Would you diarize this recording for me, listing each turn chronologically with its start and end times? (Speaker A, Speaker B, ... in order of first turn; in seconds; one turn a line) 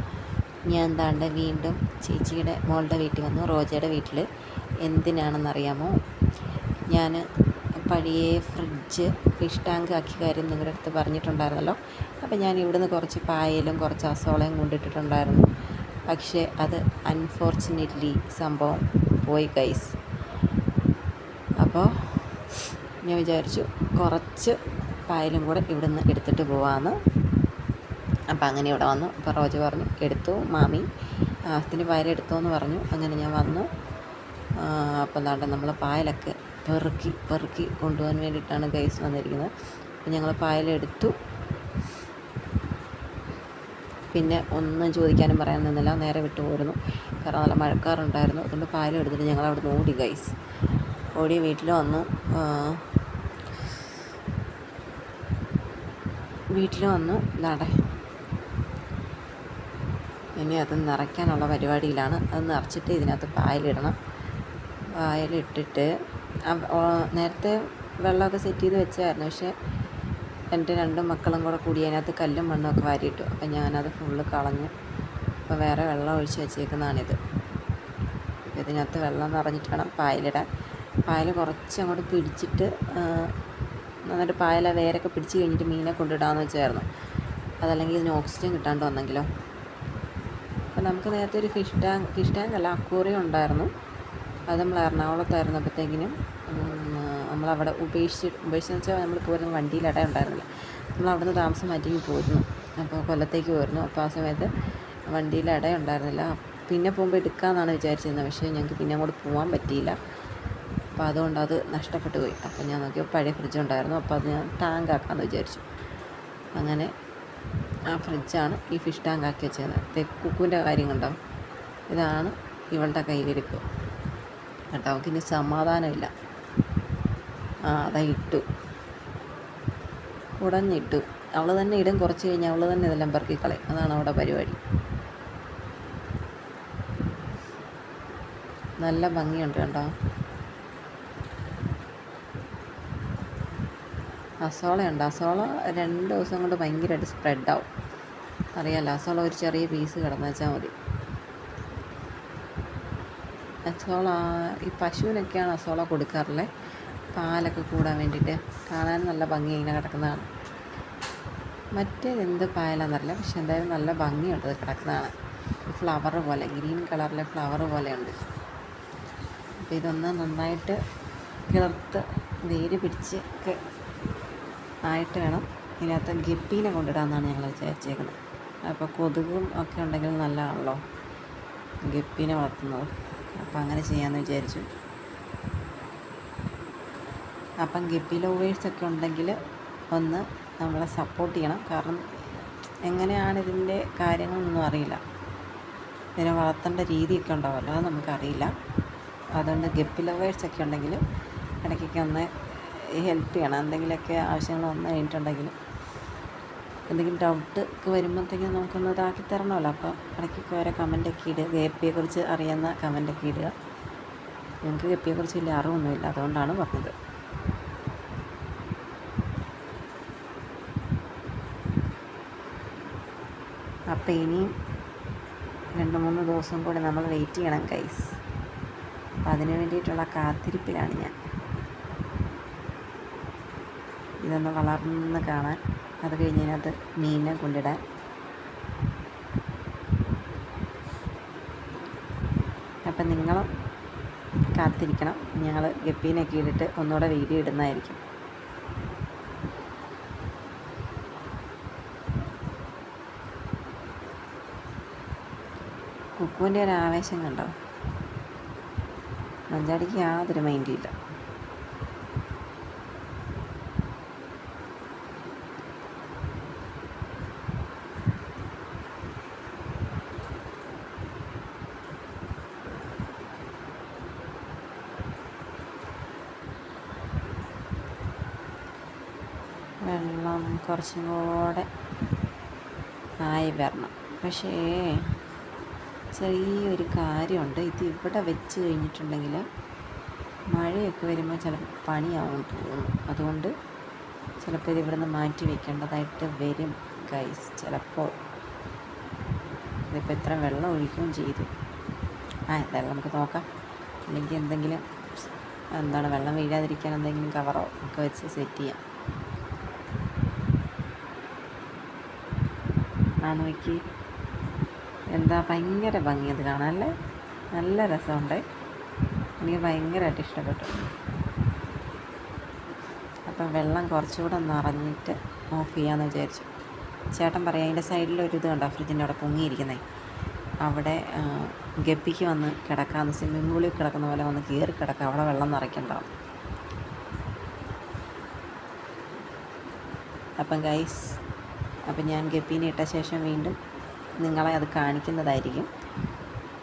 Speaker A: 0.7-4.2
Speaker A: 4.8-5.9
Speaker A: 6.9-7.2
Speaker A: 7.8-15.4
Speaker A: 16.1-19.9
Speaker A: 21.6-22.4
Speaker A: 23.0-27.0
Speaker A: 28.3-30.9
Speaker A: 31.5-33.7
Speaker A: 34.6-39.5
Speaker A: 40.0-41.1
Speaker A: 44.1-50.3
Speaker A: 51.1-52.9
Speaker A: 56.5-57.8
Speaker A: 60.4-63.9
Speaker A: 65.0-65.9
Speaker A: 66.5-69.5
Speaker A: 70.5-74.7
Speaker A: 75.5-77.2
Speaker A: 78.5-80.5
Speaker A: 81.1-83.3
Speaker A: 84.1-86.9
Speaker A: 87.6-89.3
Speaker A: 90.7-93.7
Speaker A: 94.5-104.5
Speaker A: 105.1-110.0
Speaker A: 111.0-115.6
Speaker A: 116.5-116.9
Speaker A: 117.9-121.1
Speaker A: 121.9-123.6
Speaker A: 124.7-126.1
Speaker A: 127.7-128.4
Speaker A: 130.4-134.6
Speaker A: 138.8-139.9
Speaker A: 144.4-147.7
Speaker A: 148.6-150.7
Speaker A: 153.7-156.5
Speaker A: 157.2-160.3
Speaker A: 161.8-165.1
Speaker A: 165.7-168.2
Speaker A: 169.7-170.8
Speaker A: 171.5-173.6
Speaker A: 174.8-180.8
Speaker A: 181.8-184.7
Speaker A: 187.6-189.3
Speaker A: 189.9-192.0
Speaker A: 192.8-195.0
Speaker A: 196.2-198.5
Speaker A: 199.3-201.0
Speaker A: 201.6-205.5
Speaker A: 206.9-213.5
Speaker A: 214.6-216.9
Speaker A: 223.9-224.5
Speaker A: 225.8-228.1
Speaker A: 229.3-231.1
Speaker A: 234.2-237.8
Speaker A: 242.9-243.5
Speaker A: 244.5-248.0
Speaker A: 256.2-257.5
Speaker A: 259.5-260.9
Speaker A: 279.9-281.7
Speaker A: 283.2-285.1
Speaker A: 286.1-289.4
Speaker A: 290.5-293.5
Speaker A: 294.4-298.1
Speaker A: 299.9-301.5
Speaker A: 302.5-303.4
Speaker A: 304.1-304.8
Speaker A: 305.7-308.8
Speaker A: 313.2-313.8
Speaker A: 315.1-316.9
Speaker A: 317.6-318.4
Speaker A: 319.4-320.8
Speaker A: 323.3-326.5
Speaker A: 327.1-329.8
Speaker A: 330.6-336.1
Speaker A: 340.4-341.2
Speaker A: 341.9-343.6
Speaker A: 344.2-345.7